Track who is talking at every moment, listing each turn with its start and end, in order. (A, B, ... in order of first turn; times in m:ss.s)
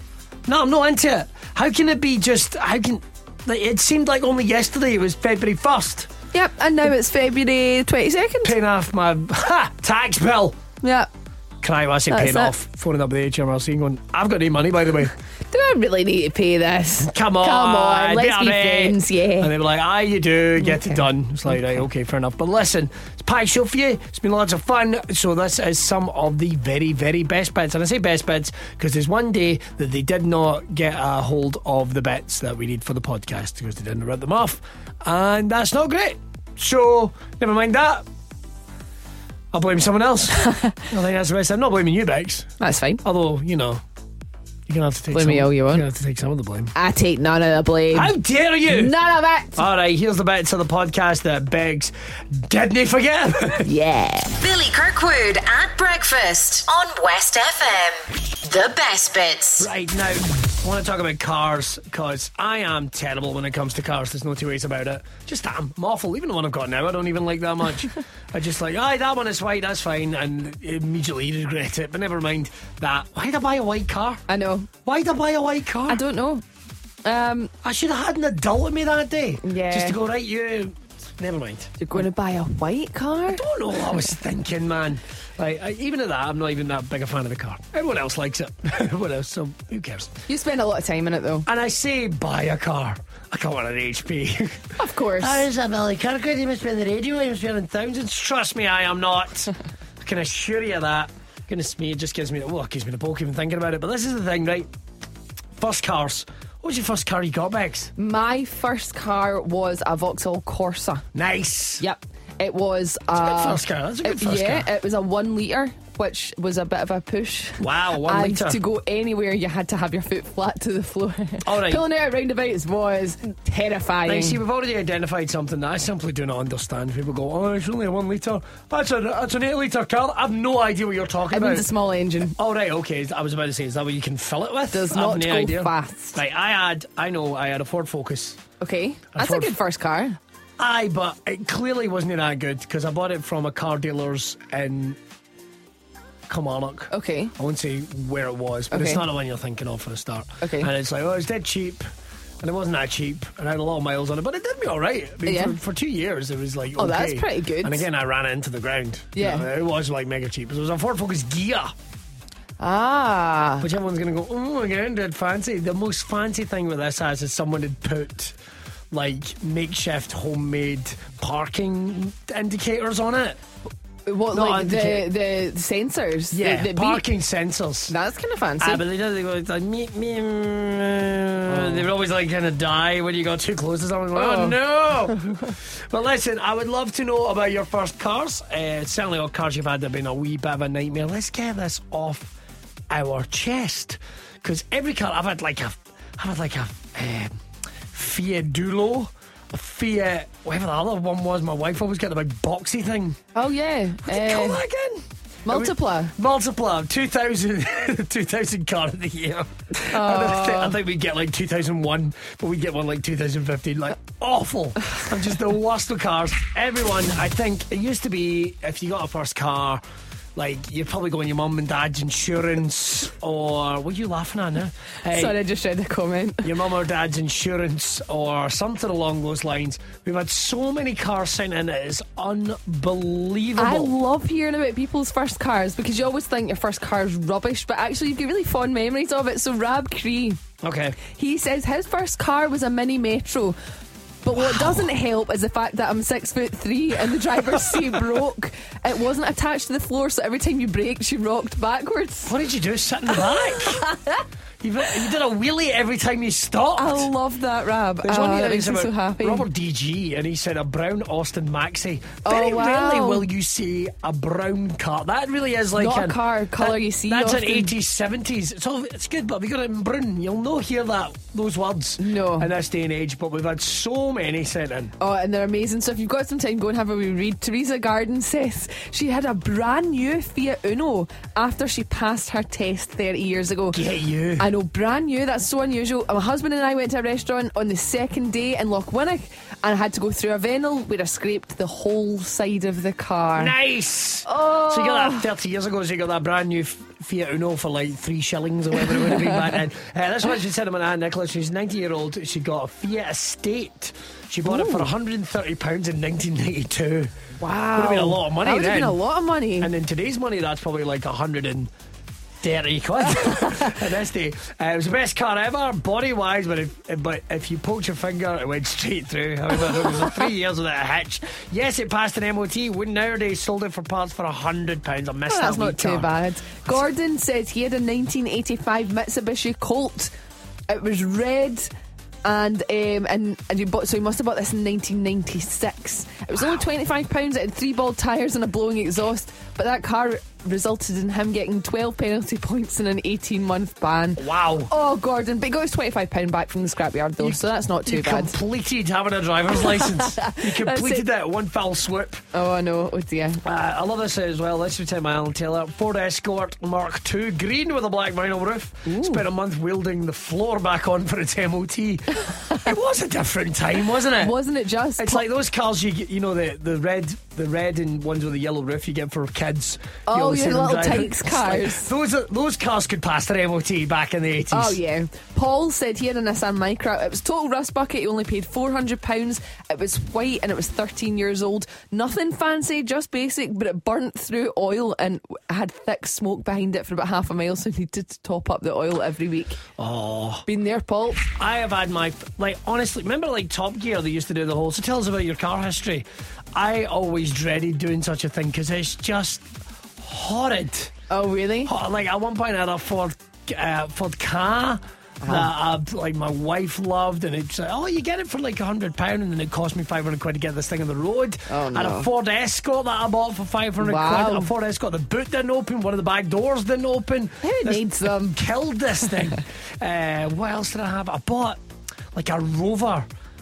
0:00.4-0:06.1 A
0:06.3-0:08.6 B
0:08.4-0:10.6 A
0:10.8-0:11.1 B
0:11.6-0:15.1 A
0:12.1-0:12.5 B
0:15.4-0:19.5 B
0:17.0-0:38.0 A
0:20.6-0:21.0 B
0:39.5-0:42.5 A
0:40.4-0:40.8 B
0:42.6-0:43.0 B
0:43.0-0:43.8 A
0:44.7-0:46.7 A
0:45.1-0:45.9 B
0:46.7-0:48.1 B
0:47.9-0:48.9 A
0:48.7-0:49.6 B
0:49.6-0:53.7 A
0:53.6-0:54.4 B
0:54.4-0:59.7 C
0:59.6-1:14.2 A
1:14.3-1:14.7 B
1:14.8-1:16.0 A
1:15.9-1:16.4 B
1:17.0-1:17.5 B
1:17.6-1:21.8 A
1:19.4-1:20.0 B
1:21.8-1:23.4 B
1:23.3-1:30.1 A
1:30.3-1:31.5 B
1:31.5-1:44.7 A
1:34.8-1:35.5 B
1:45.6-1:47.9 A
1:48.0-1:51.1 B
1:51.1-1:51.8 A
1:51.8-2:04.4 B
1:53.1-1:54.7 A
1:57.6-1:58.6 A
2:01.4-2:01.8 A
2:04.0-2:11.7 A
2:11.3-2:12.3 B
2:12.2-2:18.4 A
2:14.7-2:16.2 B
2:18.6-2:20.2 B
2:19.2-2:19.6 A
2:20.6-2:25.0 A
2:26.3-2:31.9 A
2:26.9-2:27.3 B
2:28.7-2:29.0 B
2:30.4-2:30.7 B
2:32.4-2:41.7 A
2:35.2-2:35.6 B
2:36.8-2:37.9 B
2:39.2-2:39.5 B
2:42.6-2:43.7 B
2:43.6-2:48.4 A
2:48.9-2:53.4 A
2:54.1-2:57.0 B
2:54.3-2:55.1 A
2:56.3-2:57.9 A
2:57.9-2:58.8 B
2:58.6-3:12.3 A
3:01.5-3:01.8 B
3:04.1-3:04.6 B
3:12.9-3:17.4 A
3:17.9-3:23.2 A
3:23.3-3:24.6 B
3:24.1-3:39.8 A
3:25.5-3:26.1 B
3:29.8-3:30.8 B
3:40.4-3:45.4 A
3:45.1-3:46.5 B
3:46.4-3:53.9 A
3:53.6-4:00.4 B
4:00.6-4:01.0 A
4:01.0-4:03.6 B
4:04.2-4:12.4 B
4:04.3-4:04.8 A
4:07.5-4:08.0 A
4:12.2-4:13.8 A
4:13.1-4:14.2 B
4:14.6-4:17.1 A
4:16.8-4:19.4 B
4:18.0-4:34.9 A
4:22.2-4:23.2 B
4:25.8-4:27.7 B
4:32.0-4:32.5 B
4:35.0-4:43.8 B
4:43.7-4:44.5 A
4:44.4-4:53.6 B
4:53.4-5:07.1 A
4:54.2-4:55.3 B
5:04.4-5:04.9 B
5:07.4-5:09.7 B
5:07.8-5:09.0 A
5:09.6-5:11.7 A
5:12.4-5:26.1 A
5:13.3-5:13.7 B
5:25.3-5:30.1 B
5:30.7-5:31.7 B
5:32.2-5:48.4 B
5:36.4-5:36.6 A
5:44.2-5:44.7 A
5:47.2-5:52.2 A
5:49.5-5:51.1 B
5:52.3-5:53.4 B
5:53.4-6:04.4 A
5:58.9-5:59.2 B
6:02.3-6:02.6 B
6:04.2-6:05.2 B
6:05.0-6:14.8 A
6:10.1-6:11.9 B
6:14.5-6:29.6 B
6:29.8-6:30.4 A
6:30.4-6:31.2 B
6:31.2-6:39.5 A
6:40.0-6:40.9 A
6:41.1-6:41.7 B
6:41.6-7:01.6 A
6:45.2-6:45.5 B
6:51.5-6:52.1 B
6:53.8-6:54.5 B
6:57.4-6:58.4 B
7:02.1-7:03.1 A